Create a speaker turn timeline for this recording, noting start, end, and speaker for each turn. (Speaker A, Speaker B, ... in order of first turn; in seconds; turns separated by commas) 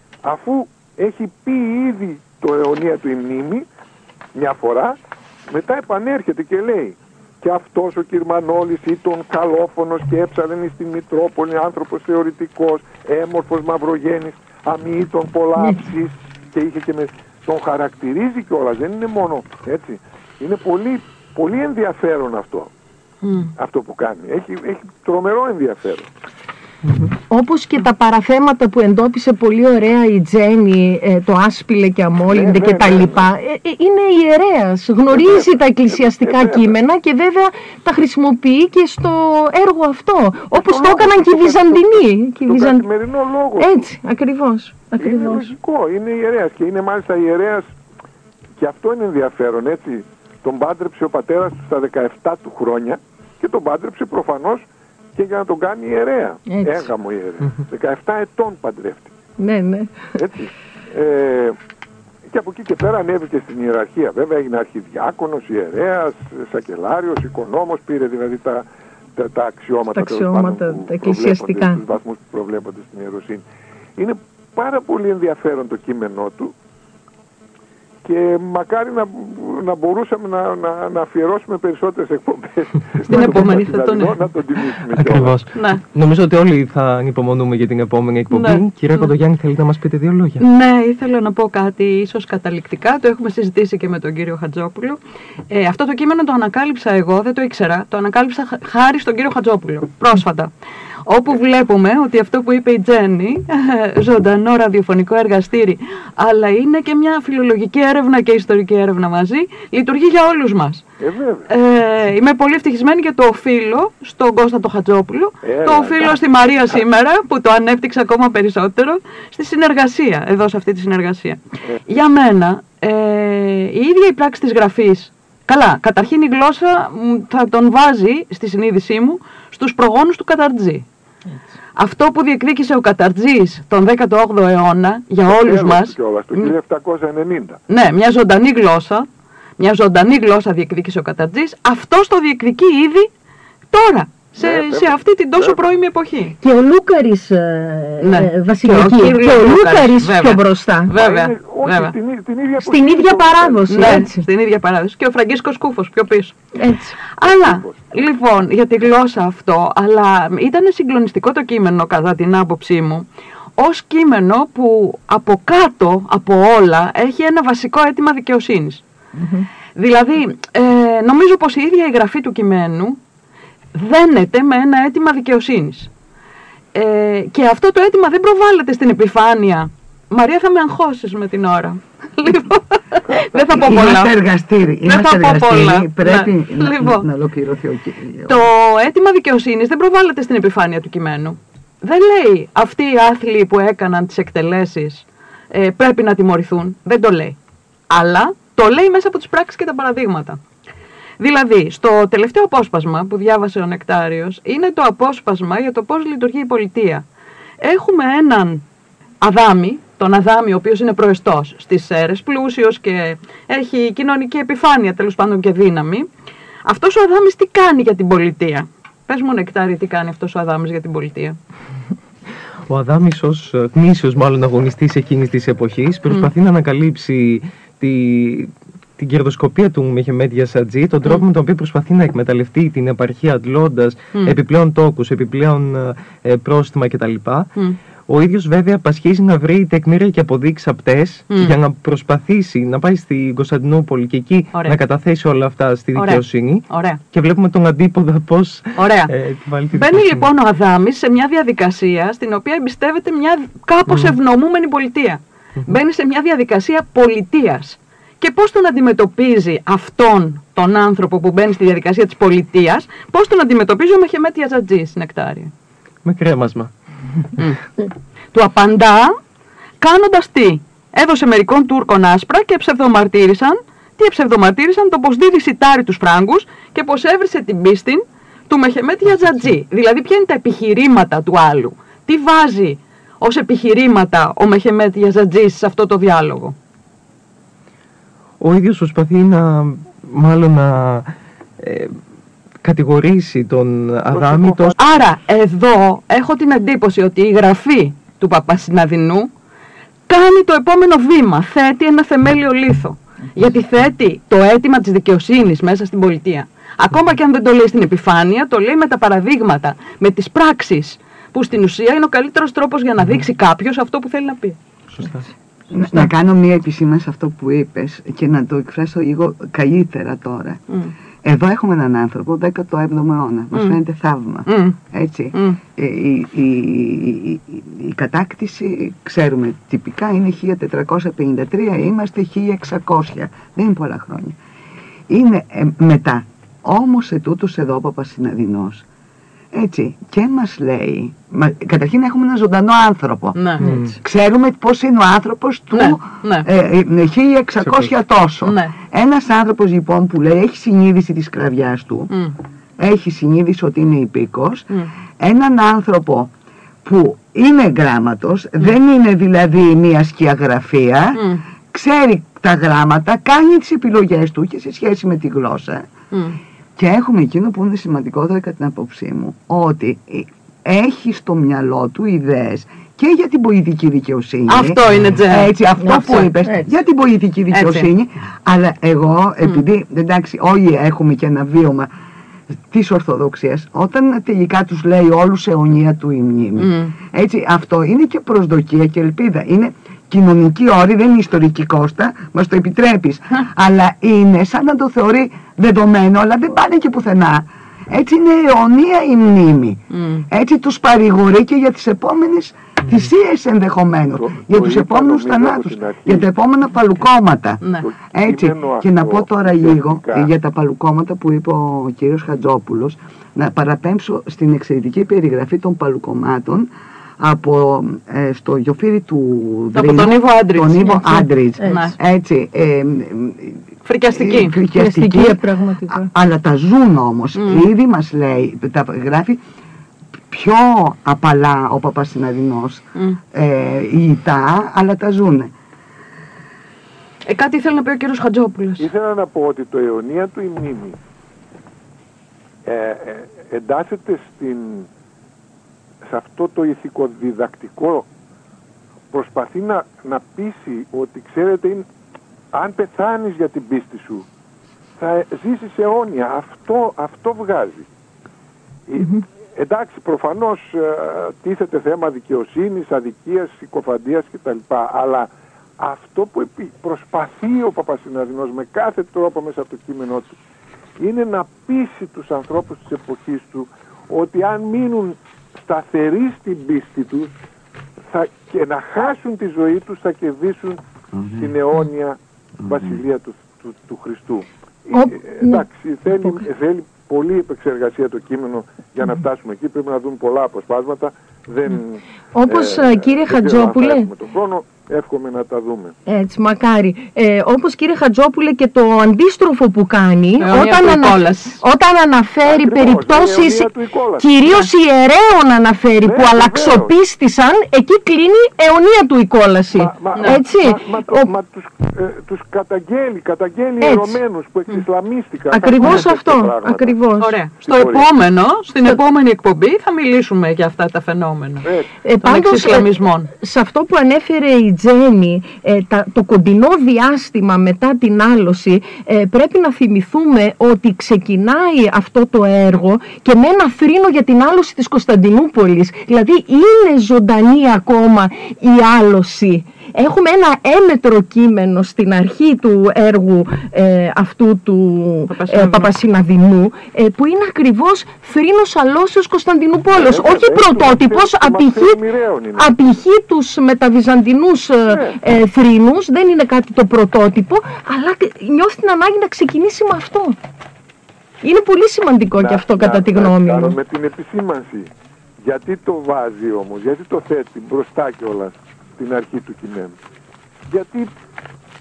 Speaker A: 0.2-3.6, Speaker A: 4.3-5.0, Speaker A: 5.5-22.7, Speaker B: 23.2-23.5, Speaker A: 23.6-26.1, Speaker C: 26.9-27.1, Speaker D: 27.3-42.9, Speaker A: 32.3-33.2, Speaker A: 35.1-36.7, Speaker A: 40.5-43.7, Speaker D: 43.6-45.5, Speaker A: 45.0-47.7, Speaker A: 48.6-54.6, Speaker A: 55.1-59.1, Speaker D: 56.5-56.9, Speaker D: 59.4-60.1, Speaker A: 60.1-61.6, Speaker A: 62.3-68.6, Speaker A: 69.2-73.4, Speaker D: 69.9-71.8, Speaker A: 74.0-76.5, Speaker A: 78.0-85.4, Speaker B: 83.1-84.2, Speaker C: 83.1-83.4, Speaker C: 84.9-90.4, Speaker B: 85.5-85.8, Speaker B: 88.3-89.1, Speaker B: 90.4-100.5, Speaker B: 101.0-110.8, Speaker A: 111.0-111.5, Speaker B: 111.5-130.8, Speaker A: 115.4-116.8, Speaker B: 131.8-136.5, Speaker A: 135.2-137.6, Speaker B: 137.7-139.1, Speaker B: 139.6-143.1, Speaker B: 143.7-146.3, Speaker A: 144.4-145.7, Speaker D: 146.4-150.9, Speaker B: 148.0-151.9, Speaker A: 151.0-154.0, Speaker D: 152.6-154.2, Speaker B: 153.7-156.4, Speaker D: 156.5-157.0, Speaker B: 157.1-163.1, Speaker A: 157.2-157.8, Speaker B: 163.6-168.8, Speaker D: 169.2-169.4, Speaker B: 169.7-173.0, Speaker B: 173.7-175.9, Speaker B: 176.7-184.1, Speaker E: 183.5-188.5, Speaker B: 184.8-187.0, Speaker B: 188.2-197.4, Speaker B: 197.9-200.4, Speaker B: 201.2-207.0, Speaker B: 207.6-208.6, Speaker B: 209.2-216.1, Speaker B: 216.6-221.4, Speaker C: 222.7-237.5, Speaker C: 238.1-250.3, Speaker B: 241.3-241.6, Speaker B: 245.9-247.0, Speaker B: 248.8-249.1, Speaker B: 249.7-265.5, Speaker C: 253.9-254.2, Speaker C: 266.0-267.4, Speaker B: 267.4-267.6, Speaker B: 268.3-269.2, Speaker B: 269.8-286.6, Speaker C: 279.1-279.5, Speaker C: 288.4-291.9, Speaker C: 292.6-294.7, Speaker A: 294.1-294.7, Speaker B: 294.8-299.3, Speaker B: 300.1-314.6, Speaker C: 314.9-315.3, Speaker E: 315.7-320.6, Speaker E: 321.2-334.4, Speaker B: 324.5-324.8, Speaker B: 325.3-325.6, Speaker E: 335.1-338.8, Speaker E: 339.5-352.1, Speaker B: 343.4-343.7, Speaker C: 343.6-344.0, Speaker B: 345.7-346.5, Speaker C: 347.6-347.9, Speaker B: 348.4-348.7, Speaker B: 352.1-352.4, Speaker E: 352.8-354.7, Speaker E: 355.2-356.3, Speaker E: 356.8-365.9, Speaker B: 361.1-361.4, Speaker B: 366.1-366.4, Speaker E: 366.8-381.9, Speaker B: 374.5-376.3, Speaker D: 375.8-376.7, Speaker B: 377.5-377.9, Speaker E: 382.7-407.6, Speaker B: 386.6-386.9, Speaker B: 399.9-400.2, Speaker A: 404.1-406.2, Speaker A: 407.8-410.3, Speaker E: 408.1-416.7, Speaker E: 417.2-429.4, Speaker B: 419.7-421.9, Speaker D: 421.6-421.9, Speaker B: 423.8-424.6, Speaker D: 424.7-426.1, Speaker B: 427.4-427.7, Speaker E: 430.3-435.5, Speaker B: 437.2-438.9, Speaker A: 438.8-441.0, Speaker A: 442.6-444.9, Speaker A: 446.1-448.1, Speaker A: 449.1-451.8, Speaker A: 452.5-454.2, Speaker A: 455.0-457.9, Speaker A: 458.9-465.3, Speaker D: 459.0-459.2, Speaker A: 465.8-470.4, Speaker A: 471.0-477.3, Speaker A: 478.1-480.8, Speaker E: 481.1-481.5, Speaker A: 481.4-495.9, Speaker E: 482.6-483.0, Speaker D: 484.9-485.7, Speaker D: 486.2-486.4, Speaker D: 492.3-494.1, Speaker D: 496.1-511.3, Speaker B: 500.4-501.6, Speaker A: 502.4-504.3, Speaker A: 506.0-506.9, Speaker A: 509.7-517.0, Speaker B: 510.1-510.4, Speaker D: 513.8-514.2, Speaker D: 515.5-517.3, Speaker B: 515.8-516.0, Speaker B: 517.2-521.7, Speaker A: 517.6-518.1, Speaker A: 521.6-521.9, Speaker D: 522.0-552.0, Speaker B: 522.2-523.3, Speaker B: 545.3-545.9, Speaker A: 549.9-552.7, Speaker D: 552.6-560.4, Speaker A: 554.9-555.2, Speaker D: 561.4-563.8, Speaker A: 562.4-564.9, Speaker A: 565.4-570.0, Speaker A: 570.7-571.1